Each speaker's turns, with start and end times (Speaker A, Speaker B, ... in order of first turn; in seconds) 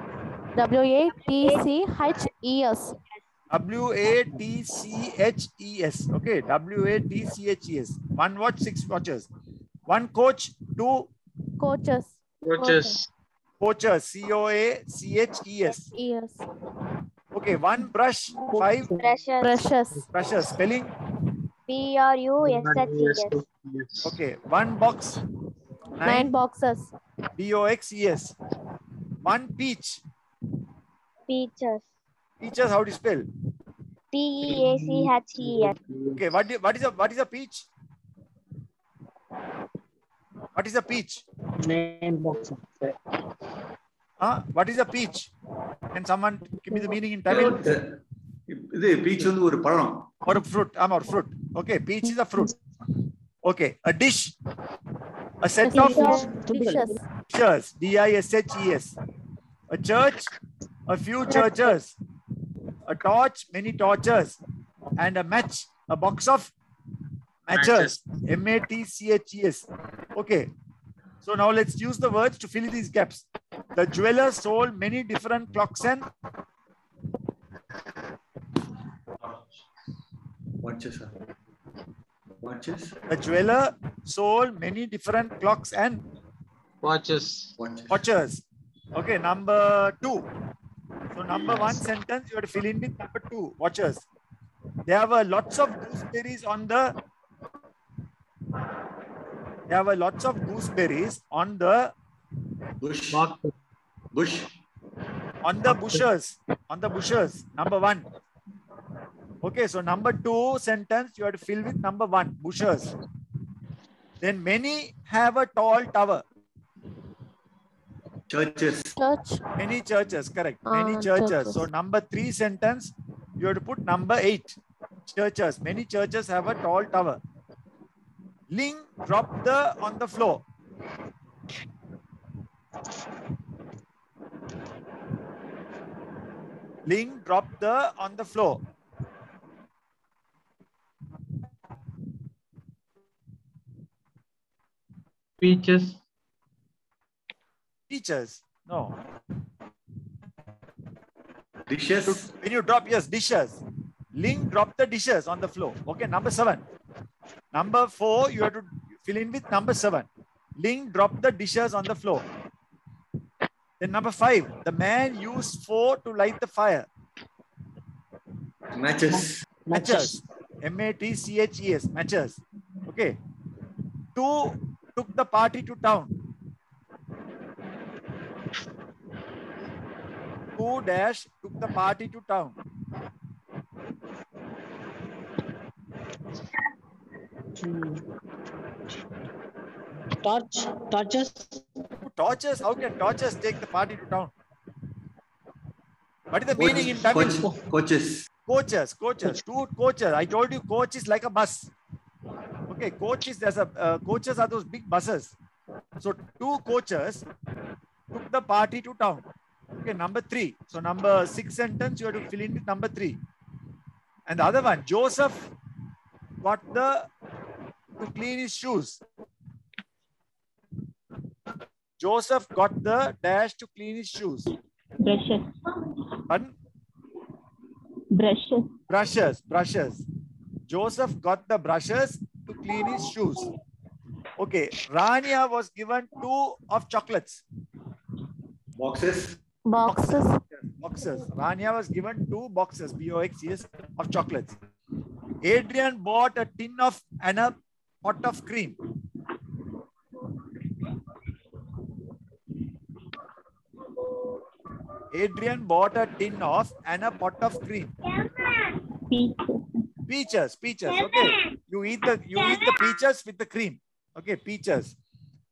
Speaker A: 0.6-3.0, 11.6-13.0, 15.9-16.4, 19.4-20.1, 26.0-26.9, 55.6-57.0, 119.0-119.4, 120.7-121.7, 239.7-240.4
Speaker B: 1.4-1.6, 19.0-19.6, 21.7-23.4, 31.3-31.8, 34.1-35.8
Speaker C: 3.5-9.3, 9.9-11.1, 13.6-15.9, 17.3-18.9, 20.1-20.9, 24.0-25.2, 26.0-26.4, 27.4-28.3, 29.2-30.0, 32.4-33.3, 36.1-37.7, 40.5-41.2, 44.2-45.3, 45.9-47.7, 50.2-52.5, 53.5-54.3, 55.4-56.2, 57.3-59.0, 59.7-60.3, 60.9-62.0, 62.9-64.4, 65.0-66.5, 67.5-70.5, 71.2-76.1, 83.1-86.0, 87.9-88.4, 89.0-90.3, 91.1-94.0, 94.9-96.9, 99.7-101.9, 105.4-108.0, 109.4-112.9, 114.2-116.2, 119.6-124.6, 125.1-127.2, 128.5-130.4, 136.9-138.6, 147.9-148.9, 152.1-153.6, 154.1-156.6, 157.5-162.2, 163.8-166.9, 169.7-173.2, 174.2-176.1, 180.6-182.6, 192.1-194.3, 196.3-197.4, 198.5-201.7, 202.7-205.3, 206.0-207.2, 208.1-213.2, 214.3-215.5, 216.4-217.1, 218.0-219.0, 222.0-224.5, 228.9-230.0, 230.7-233.5, 234.4-237.4, 239.8-244.6, 245.4-248.8, 255.1-257.9, 260.1-264.9
Speaker D: 12.4-13.1, 23.2-24.1, 67.5-68.0, 86.8-87.6, 145.4-146.0
Speaker E: 18.5-19.1, 41.6-42.9, 55.8-57.0, 169.1-170.2, 187.6-188.0, 190.2-191.6
Speaker F: 47.3-48.0, 48.5-50.1, 80.6-81.2, 82.4-83.0, 87.6-88.0, 102.8-103.3, 104.1-104.5, 118.3-118.9, 151.7-152.3, 168.8-169.3, 196.6-198.3, 238.8-239.4